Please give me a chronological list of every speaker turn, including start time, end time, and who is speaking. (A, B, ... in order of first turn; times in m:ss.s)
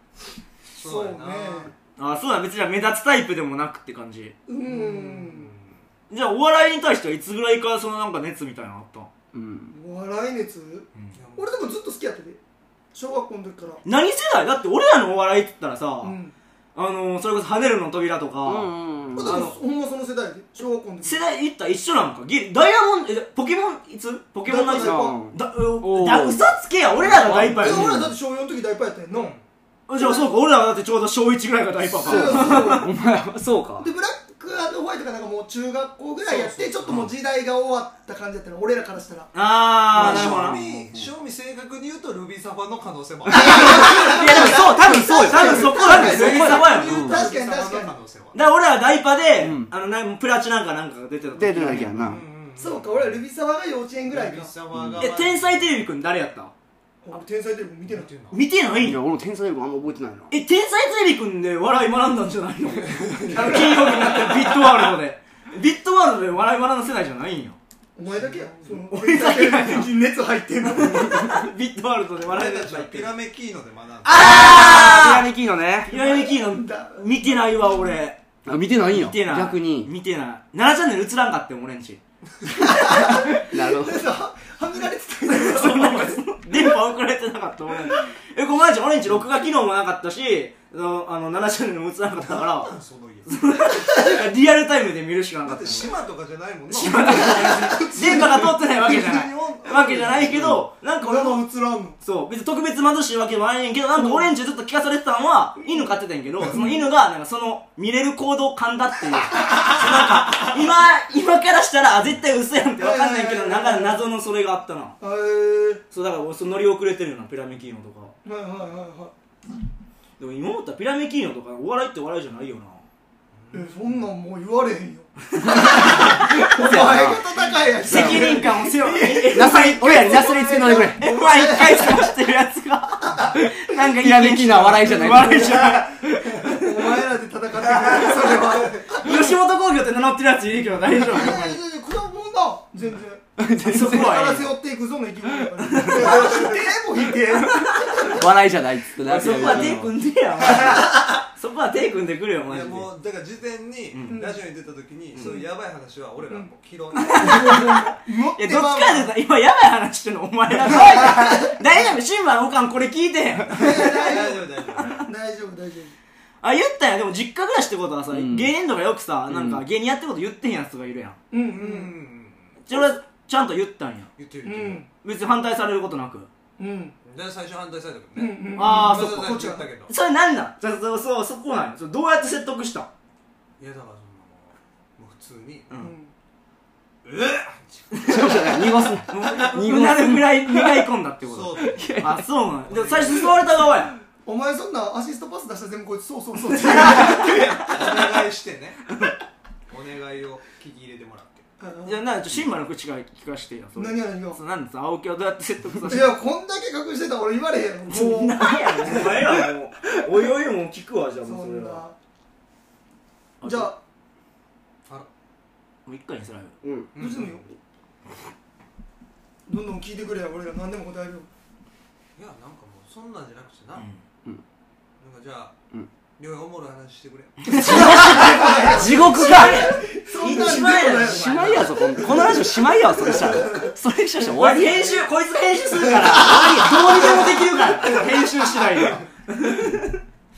0:00.7-0:01.7 A
0:00.8-0:01.7 B
0:02.0-0:04.4 C
0:04.5-0:05.5 B
0:04.6-0:05.8 A
0:06.1-0:09.1 C
0:09.3-0:09.7 D
0:09.7-0:12.4 B
0:11.1-0:11.5 A
0:12.9-0:13.8 B
0:13.8-0:16.2 C
0:16.0-0:16.3 B
0:16.7-0:18.7 C
0:18.4-0:19.4 D
0:19.1-0:21.2 B
0:19.2-0:19.5 C
0:21.0-0:28.0 C
0:24.4-0:25.2 B
0:24.8-0:26.5 D
0:27.0-0:27.9 A
0:27.2-0:28.1 D
0:27.5-0:29.3 B
0:29.1-0:29.4 A
0:29.9-0:32.8 C
0:30.0-0:30.3 B
0:31.9-0:32.9 B
0:32.0-0:33.9 D
0:33.8-0:39.3 B
0:36.3-0:37.0 A
0:39.3-0:40.6 C
0:39.9-0:44.0 A
0:39.9-0:41.1 D
0:43.3-0:47.2 D
0:43.3-0:47.9 B
0:44.9-0:47.1 C
0:45.8-0:48.4 A
0:48.3-0:51.9 C
0:49.4-0:49.7 D
0:51.4-0:52.2 D
0:51.4-0:53.2 A
0:52.6-0:54.5 B
0:54.0-0:55.7 A
0:54.7-0:55.1 D
0:55.0-0:56.5 C
0:57.0-0:58.1 B
0:57.9-0:58.4 A
0:58.3-0:59.0 C
0:58.8-1:00.3 D
1:00.3-1:07.6 C
1:02.7-1:04.4 A
1:08.0-1:11.4 B
1:08.1-1:08.8 A
1:08.9-1:09.9 C
1:10.7-1:13.1 C
1:12.2-1:14.4 A
1:14.1-1:15.9 D
1:14.1-1:15.3 C
1:14.3-1:15.0 B
1:15.9-1:18.2 C
1:15.9-1:17.1 B
1:18.4-1:19.9 D
1:18.8-1:22.0 C
1:22.5-1:26.2 B
1:23.1-1:24.0 D
1:25.3-1:32.7 C
1:32.1-1:33.3 A
1:33.2-1:36.0 C
1:35.4-1:40.6 A
1:36.7-1:41.4 C
1:36.9-1:38.5 B
1:41.0-1:42.0 B
1:42.0-1:55.0 C
1:44.0-1:44.3 B
1:46.4-1:46.9 B
1:52.8-1:54.0 B
1:55.0-1:55.8 B
1:55.9-1:58.1 C
1:58.2-1:59.1 B
2:00.2-2:02.8 C
2:03.3-2:04.1 A
2:03.5-2:12.1 B
2:05.5-2:06.1 C
2:05.6-2:07.2 D
2:07.8-2:16.5 C
2:07.8-2:08.4 D
2:09.3-2:11.0 D
2:13.0-2:13.3 B
2:13.3-2:15.8 D
2:14.8-2:19.4 B
2:17.8-2:21.6 C
2:21.0-2:28.2 B
2:23.4-2:24.3 D
2:23.6-2:24.5 C
2:25.6-2:26.5 C
2:25.8-2:26.3 D
2:27.4-2:27.9 C
2:28.1-2:29.9 D
2:29.0-2:32.9 C
2:29.1-2:29.7 A
2:29.2-2:29.8 B
2:32.4-2:37.7 A
2:34.1-2:34.4 B
2:35.2-2:35.5 B
2:36.3-2:39.1 B
2:37.0-2:44.2 C
2:40.6-2:41.6 B
2:43.5-2:44.5 B
2:43.5-2:45.1 A
2:45.0-2:45.9 B
2:46.4-2:51.2 C
2:48.1-2:48.5 D
2:49.3-2:49.6 D
2:51.3-2:51.9 B
2:51.5-2:52.9 A
2:52.7-2:54.1 C
2:54.2-2:54.8 A
2:54.4-2:54.9 B
2:55.0-2:56.3 C
2:56.6-2:56.9 B
2:57.0-2:59.9 A
2:58.1-2:59.7 B
2:58.6-3:02.9 C
3:03.6-3:05.7 A
3:05.8-3:06.1 B
3:07.0-3:08.3 A
3:07.9-3:13.9 C
3:08.0-3:10.9 D
3:11.2-3:12.0 A
3:11.6-3:12.2 D
3:12.6-3:13.6 A
3:14.2-3:18.1 B
3:16.6-3:18.9 A
3:16.7-3:17.4 C
3:19.7-3:21.5 A
3:21.6-3:22.0 B
3:21.8-3:26.2 C
3:23.8-3:24.4 B
3:25.9-3:29.2 B
3:27.9-3:31.8 C
3:31.2-3:31.9 B
3:33.4-3:33.7 C
3:33.4-3:33.8 B
3:35.8-3:36.5 C
3:36.6-3:36.9 D
3:36.9-3:37.4 A
3:37.0-3:37.5 B
3:39.5-3:41.3 B
3:42.2-3:43.9 A
3:45.0-3:45.6 A
3:46.2-3:48.6 A
3:47.5-3:52.3 C
3:47.6-3:49.8 D
3:47.6-3:53.7 B
3:51.0-3:54.9 D
3:54.2-4:00.0 C
3:54.6-3:55.1 B
3:55.7-3:58.9 B
3:56.0-3:57.2 D